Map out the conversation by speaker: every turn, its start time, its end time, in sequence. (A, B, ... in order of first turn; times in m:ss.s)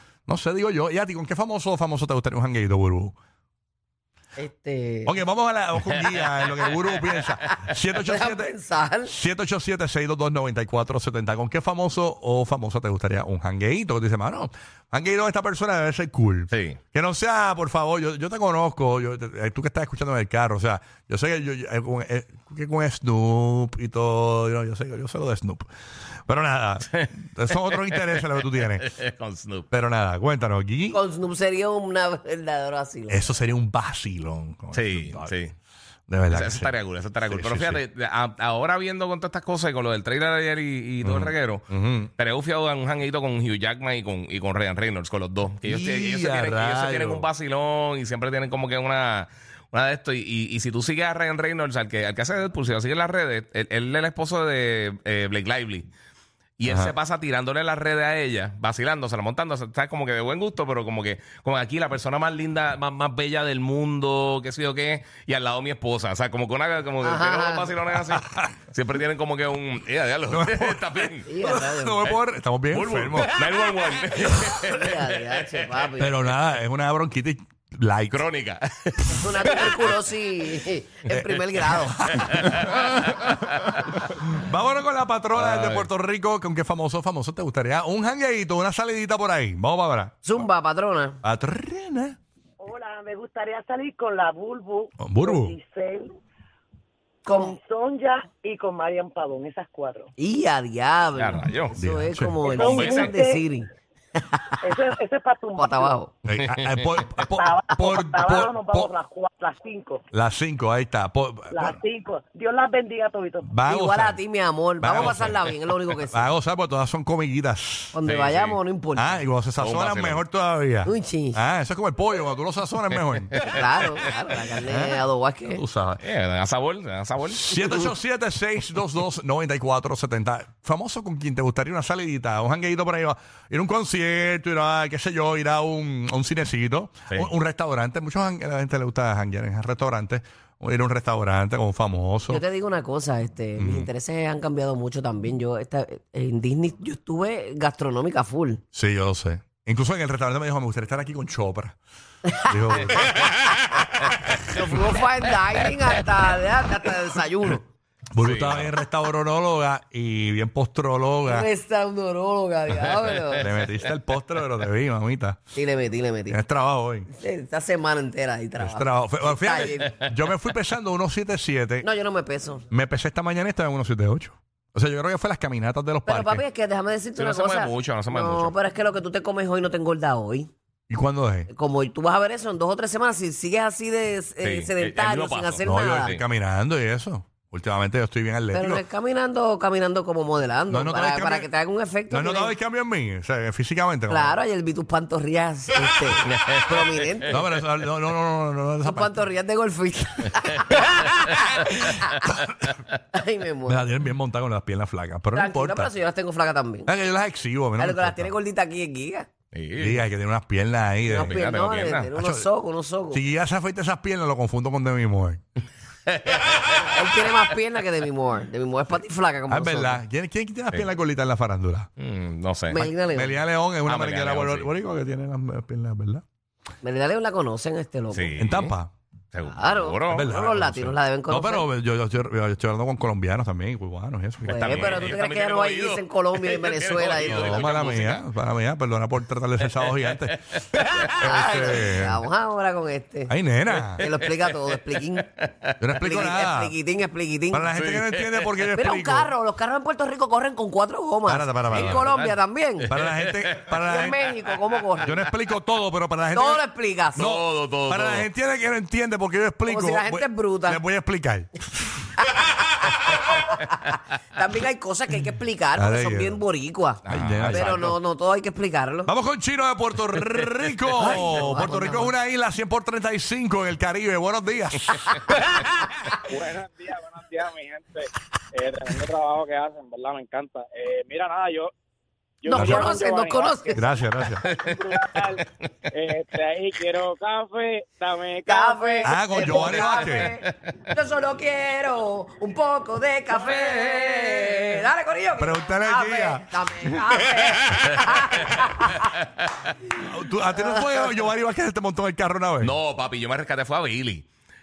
0:00.3-0:03.1 A
0:04.4-0:05.2 B
0:05.1-0:25.7 A
0:05.9-0:06.3 C
0:06.8-0:07.6 C
0:08.0-0:09.1 B
0:16.5-0:16.8 C
0:26.3-0:29.0 A
0:27.0-0:28.3 C
0:28.8-0:29.7 C
0:29.7-0:31.0 A
0:30.9-0:33.2 B
0:33.1-0:35.3 A
0:34.7-0:35.5 C
0:36.1-0:37.8 A
0:36.3-0:41.6 C
0:41.0-0:42.1 A
0:42.2-0:55.9 C
0:45.6-0:47.3 A
0:56.6-1:11.3 C
0:56.7-0:56.9 A
1:07.0-1:07.7 B
1:08.1-1:08.5 A
1:10.3-1:13.3 A
1:11.3-1:12.0 B
1:12.7-1:15.5 C
1:14.3-1:16.2 B
1:16.0-1:18.2 A
1:18.1-1:20.0 C
1:19.1-1:22.2 B
1:21.1-1:30.4 A
1:22.1-1:23.8 C
1:25.4-1:25.9 C
1:30.2-1:31.2 B
1:31.2-1:32.2 A
1:32.6-1:36.2 D
1:35.0-1:35.6 A
1:37.3-1:37.5 B
1:37.3-1:40.1 D
1:40.2-1:43.7 B
1:41.2-1:41.8 C
1:41.8-1:42.4 A
1:42.4-1:43.5 D
1:42.5-1:43.1 C
1:44.2-1:44.5 B
1:44.6-1:46.0 D
1:45.6-1:46.1 B
1:46.2-1:48.9 A
1:47.3-1:50.0 D
1:50.1-1:51.8 A
1:51.5-1:53.6 D
1:53.5-1:54.2 A
1:53.7-1:56.2 B
1:54.8-1:58.0 A
1:54.9-1:55.4 C
1:57.9-1:59.2 B
1:58.0-1:58.6 C
1:59.0-2:03.4 A
1:59.6-2:00.2 C
2:00.8-2:01.4 B
2:03.3-2:03.6 C
2:03.4-2:05.6 B
2:04.7-2:06.0 A
2:06.0-2:07.9 C
2:07.3-2:22.4 A
2:22.3-2:28.6 B
2:23.6-2:23.9 A
2:28.7-2:31.8 A
2:32.3-2:33.1 B
2:32.4-2:34.7 A
2:34.4-2:37.6 B
2:38.1-2:41.5 A
2:38.2-2:38.7 C
2:41.2-2:43.5 B
2:42.8-2:43.5 C
2:43.3-2:45.4 A
2:45.6-2:46.4 B
2:46.3-2:47.1 A
2:47.1-2:50.0 B
2:48.6-2:51.9 A
2:51.8-2:52.6 B
2:52.7-2:56.4 A
2:56.1-3:00.5 B
2:57.2-2:58.5 C
3:00.9-3:01.5 A
3:01.5-3:06.2 B
3:04.4-3:06.2 C
3:05.6-3:08.8 A
3:08.5-3:12.5 B
3:10.7-3:11.5 A
3:12.1-3:14.4 A
3:14.1-3:17.4 B
3:16.2-3:17.2 C
3:17.3-3:19.2 A
3:18.8-3:22.2 B
3:22.1-3:22.7 A
3:23.1-3:23.9 B
3:23.7-3:25.9 A
3:25.3-3:26.9 B
3:26.8-3:28.3 A
3:27.8-3:29.3 B
3:29.5-3:30.0 C
3:29.8-3:31.4 A
3:31.1-3:33.2 B
3:31.2-3:32.1 C
3:32.1-3:32.5 A
3:33.1-3:35.4 A
3:36.2-3:36.8 C
3:36.7-3:40.0 B
3:39.5-3:41.9 A
3:42.0-3:42.8 C
3:42.7-3:43.4 B
3:42.8-3:46.2 A
3:43.9-3:44.7 C
3:46.8-3:48.4 B
3:48.1-3:48.7 C
3:48.4-3:48.9 A
3:49.3-3:50.3 C
3:49.5-3:51.7 B
3:50.1-3:55.2 A
3:54.4-3:58.3 C
3:54.5-3:57.9 B
3:57.2-4:02.3 A
3:59.7-4:01.5 C
4:01.0-4:03.3 B
4:03.3-4:04.1 A
4:03.7-4:04.8 C
4:04.0-4:05.3 B
4:05.4-4:05.7 C
4:05.8-4:06.8 A
4:06.0-4:07.7 B
4:07.5-4:09.3 A
4:07.7-4:08.6 C
4:08.7-4:12.9 B
4:11.3-4:12.1 A
4:11.7-4:13.7 C
4:12.8-4:14.2 A
4:13.8-4:15.2 B
4:15.0-4:21.6 A
4:16.3-4:17.3 B
4:17.2-4:18.3 C
4:19.7-4:20.8 B
4:22.2-4:29.1 B
4:25.8-4:26.4 A
4:27.0-4:27.9 C
4:27.1-4:28.0 A
4:29.1-4:35.2 A
4:30.9-4:32.1 B
4:31.0-4:31.6 C
4:36.3-4:41.7 E
4:42.4-4:43.9 E
4:42.5-4:43.9 B
4:42.5-4:42.8 A
4:43.7-4:44.5 A
4:44.2-4:45.4 C
4:44.5-4:50.0 E
4:48.5-4:59.1 B
4:49.0-4:50.3 A
4:49.6-4:50.5 C
4:53.3-4:54.8 C
4:55.4-4:58.6 A
4:58.0-4:59.7 C
4:59.9-5:02.7 A
5:02.6-5:04.3 C